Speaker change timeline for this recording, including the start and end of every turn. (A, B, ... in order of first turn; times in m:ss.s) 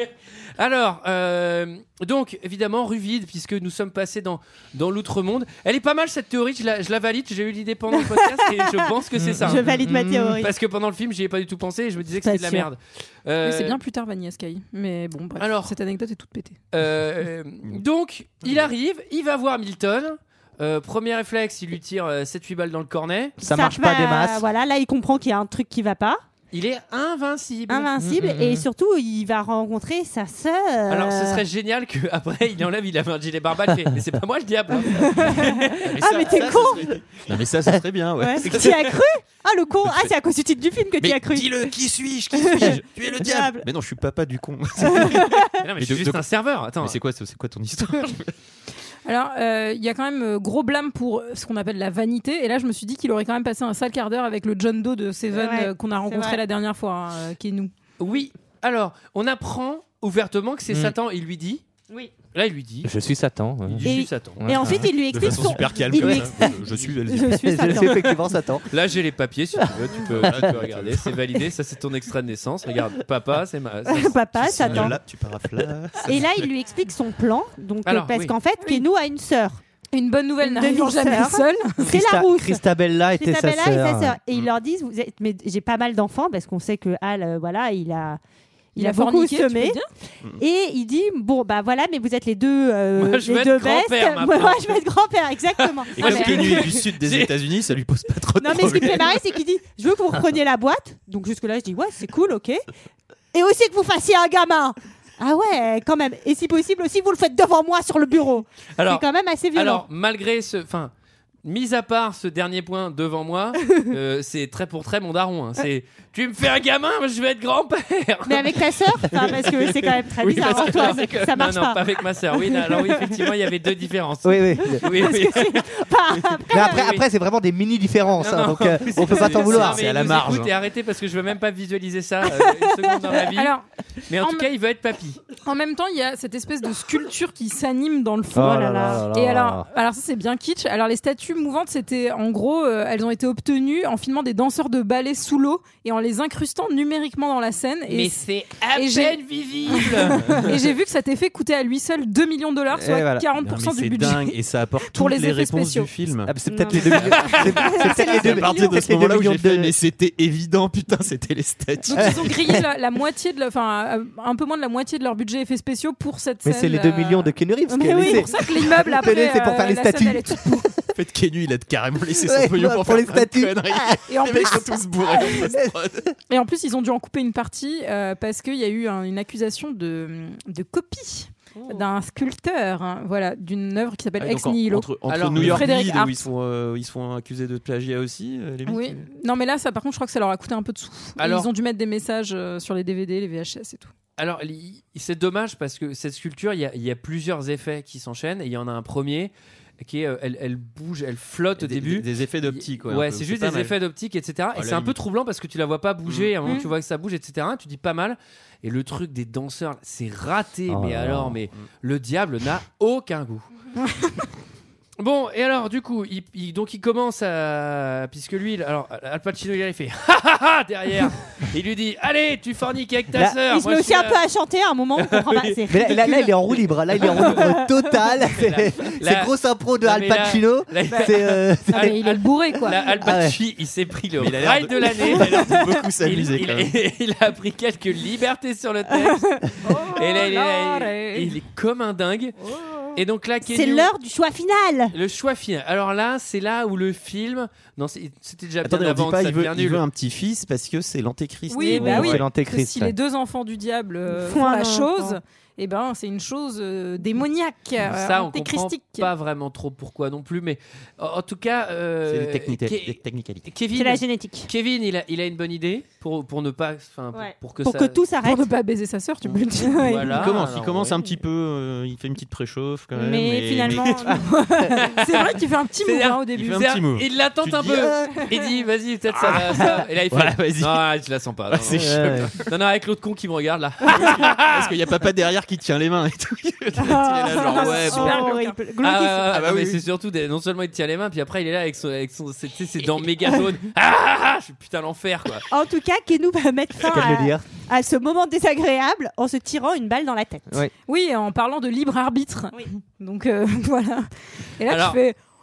0:00.6-0:13.8 A
0:09.2-0:09.8 B
0:09.4-0:10.5 C
0:12.2-0:12.7 C
0:13.4-0:16.6 D
0:15.4-0:15.7 A
0:16.7-0:23.4 A
0:23.4-0:24.4 B
0:23.4-0:26.2 C
0:26.5-0:28.4 A
0:27.7-0:31.4 C
0:28.0-0:28.3 B
0:30.9-0:35.8 A
0:35.4-0:37.0 C
0:35.8-0:39.0 E
0:38.2-0:41.8 C
0:39.8-0:40.1 E
0:41.0-0:46.3 E
0:42.3-0:43.7 C
0:44.8-0:45.5 C
0:45.6-0:47.0 A
0:46.8-0:48.3 E
0:49.0-0:57.7 D
0:55.3-0:56.4 C
0:58.0-1:01.6 A
1:02.3-1:02.9 A
1:02.8-1:03.8 B
1:03.7-1:04.5 A
1:03.8-1:08.2 C
1:04.4-1:04.9 B
1:04.6-1:07.8 E
1:06.0-1:06.5 B
1:07.2-1:08.7 B
1:08.6-1:14.9 A
1:09.9-1:11.2 E
1:13.9-1:15.0 C
1:14.4-1:16.4 E
1:16.0-1:19.6 C
1:17.8-1:18.3 A
1:18.6-1:18.8 D
1:19.9-1:21.9 D
1:20.4-1:22.6 C
1:21.8-1:24.2 B
1:23.2-1:28.2 C
1:28.7-1:29.8 C
1:28.8-1:29.9 D
1:30.4-1:36.6 C
1:33.0-1:34.8 A
1:35.6-1:37.3 A
1:36.0-1:39.2 E
1:36.1-1:36.4 D
1:38.4-1:42.6 C
1:43.3-1:49.8 C
1:48.8-1:50.9 A
1:51.4-2:05.7 A
1:58.2-2:01.8 C
2:02.7-2:03.1 C
2:04.2-2:04.9 B
2:04.8-2:07.0 C
2:06.2-2:07.0 A
2:06.5-2:09.8 B
2:08.2-2:13.5 A
2:09.1-2:10.5 E
2:13.2-2:13.6 D
2:14.1-2:15.2 A
2:14.2-2:14.5 D
2:15.4-2:28.2 D
2:18.3-2:19.6 B
2:18.4-2:19.0 C
2:27.9-2:30.4 A
2:28.7-2:35.9 D
2:32.7-2:33.3 B
2:33.4-2:36.4 E
2:36.2-2:39.7 B
2:36.4-2:37.2 C
2:36.9-2:37.6 A
2:37.0-2:42.5 E
2:37.4-2:38.8 D
2:41.8-2:50.8 D
2:42.0-2:42.5 B
2:46.4-2:50.6 B
2:47.7-2:48.3 C
2:50.9-2:56.1 E
2:52.2-2:54.6 B
2:54.1-2:55.5 D
2:55.2-2:55.8 B
2:56.3-3:06.3 D
3:04.2-3:09.0 E
3:05.1-3:05.6 A
3:08.6-3:13.9 D
3:11.2-3:11.5 A
3:14.2-3:33.5 A
3:21.6-3:23.8 E
3:24.5-3:25.0 E
3:26.0-3:26.6 E
3:30.7-3:31.4 B
3:33.8-3:34.3 D
3:35.0-3:44.2 A
3:43.5-3:46.4 C
3:45.0-3:45.6 A
3:45.7-3:52.0 B
3:46.9-3:47.4 A
3:47.0-3:47.4 C
3:48.3-4:02.4 A
3:50.9-3:51.2 D
3:51.7-3:52.9 D
3:53.0-3:53.4 B
3:54.2-3:56.7 E
3:59.6-4:01.3 D
4:02.5-4:02.8 D
4:02.9-4:03.9 A
4:03.4-4:04.9 C
4:04.9-4:09.8 A
4:08.6-4:12.2 E
4:11.5-4:19.1 D
4:11.7-4:12.0 C
4:11.7-4:12.9 B
4:14.1-4:15.2 C
4:17.8-4:28.0 A
4:22.1-4:23.5 E
4:23.7-4:24.5 C
4:27.1-4:28.5 C
4:28.2-4:30.2 D
4:29.8-4:31.0 A
4:30.1-4:34.2 E
4:32.9-4:34.3 C
4:34.2-4:36.6 D
4:35.0-4:35.3 A
4:35.8-4:44.7 A
4:36.3-4:38.1 E
4:39.2-4:40.9 E
4:41.5-4:42.4 E
4:41.7-4:42.3 B
4:43.9-4:48.3 E
4:46.8-4:49.4 C
4:47.2-4:48.5 D
4:48.8-4:55.4 A
4:49.3-4:49.8 E
4:55.5-5:00.6 C
4:56.8-4:57.4 B
5:00.8-5:05.2 D
5:04.7-5:05.0 A